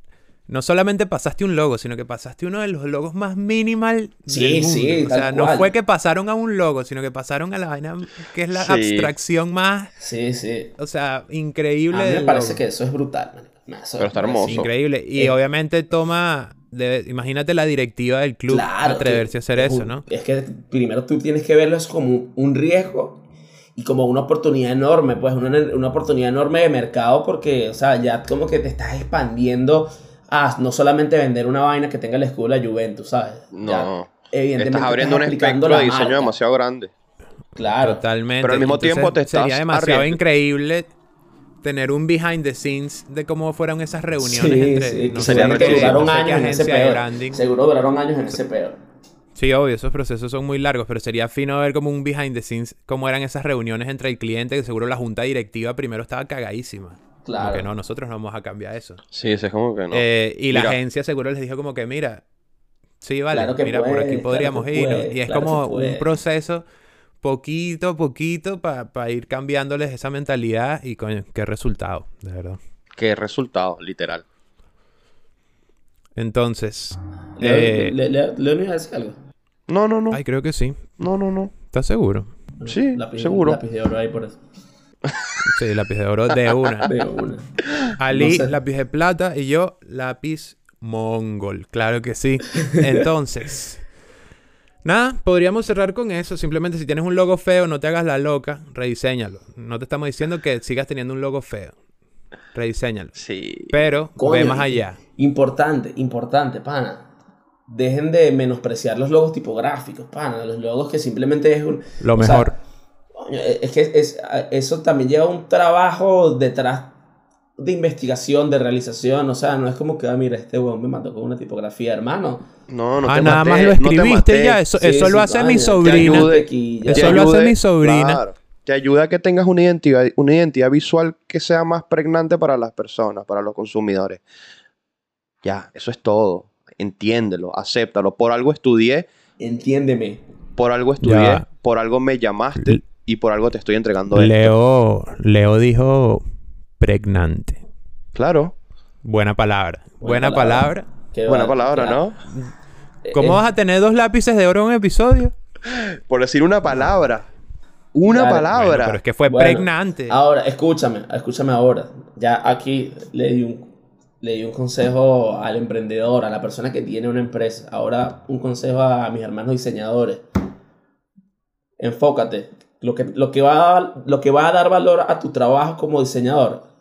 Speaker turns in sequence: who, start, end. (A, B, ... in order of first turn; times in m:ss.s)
0:00.5-0:09.9 A
0:04.3-0:05.7 B
0:08.5-0:09.1 C
0:10.0-0:10.7 B
0:10.8-0:12.6 A
0:11.9-0:14.6 B
0:14.0-0:14.7 C
0:14.4-0:20.0 A
0:18.5-0:23.2 B
0:23.8-0:36.3 B
0:33.5-0:36.9 C
0:37.6-0:38.0 B
0:37.8-0:40.9 A
0:38.4-0:40.2 C
0:41.6-0:47.4 A
0:44.2-0:48.8 B
0:45.2-0:46.1 C
0:49.4-0:59.0 A
0:57.2-0:57.7 B
0:59.1-1:00.8 C
0:59.9-1:02.2 A
1:03.0-1:06.6 A
1:03.3-1:06.1 B
1:07.2-1:12.6 A
1:13.0-1:14.2 C
1:16.2-1:18.0 A
1:17.4-1:19.2 B
1:19.7-1:20.2 C
1:20.1-1:21.0 A
1:21.0-1:21.5 C
1:21.6-1:22.3 A
1:22.6-1:24.4 B
1:22.7-1:23.6 C
1:25.4-1:26.9 A
1:26.9-1:28.5 B
1:28.0-1:33.9 A
1:34.8-1:41.8 A
1:42.5-1:43.2 A
1:43.2-1:43.7 C
1:43.7-1:45.0 A
1:44.2-1:47.1 B
1:47.7-1:52.5 B
1:52.0-1:52.5 A
1:53.2-1:57.0 B
1:57.6-2:02.5 B
2:02.7-2:04.6 C
2:03.1-2:06.3 A
2:04.7-2:07.3 B
2:05.8-2:14.2 C
2:06.9-2:08.2 A
2:15.4-2:19.1 C
2:19.4-2:20.2 B
2:20.6-2:24.5 C
2:21.0-2:21.5 A
2:22.6-2:22.8 A
2:24.1-2:26.2 A
2:26.8-2:27.6 A
2:28.2-2:28.6 C
2:29.0-2:30.9 A
2:30.0-2:32.1 B
2:31.3-2:32.2 C
2:33.0-2:33.4 B
2:33.1-2:35.3 A
2:35.7-2:37.3 C
2:38.0-2:39.0 C
2:38.1-2:38.6 B
2:38.5-2:40.2 A
2:39.2-2:50.2 B
2:51.8-2:56.7 B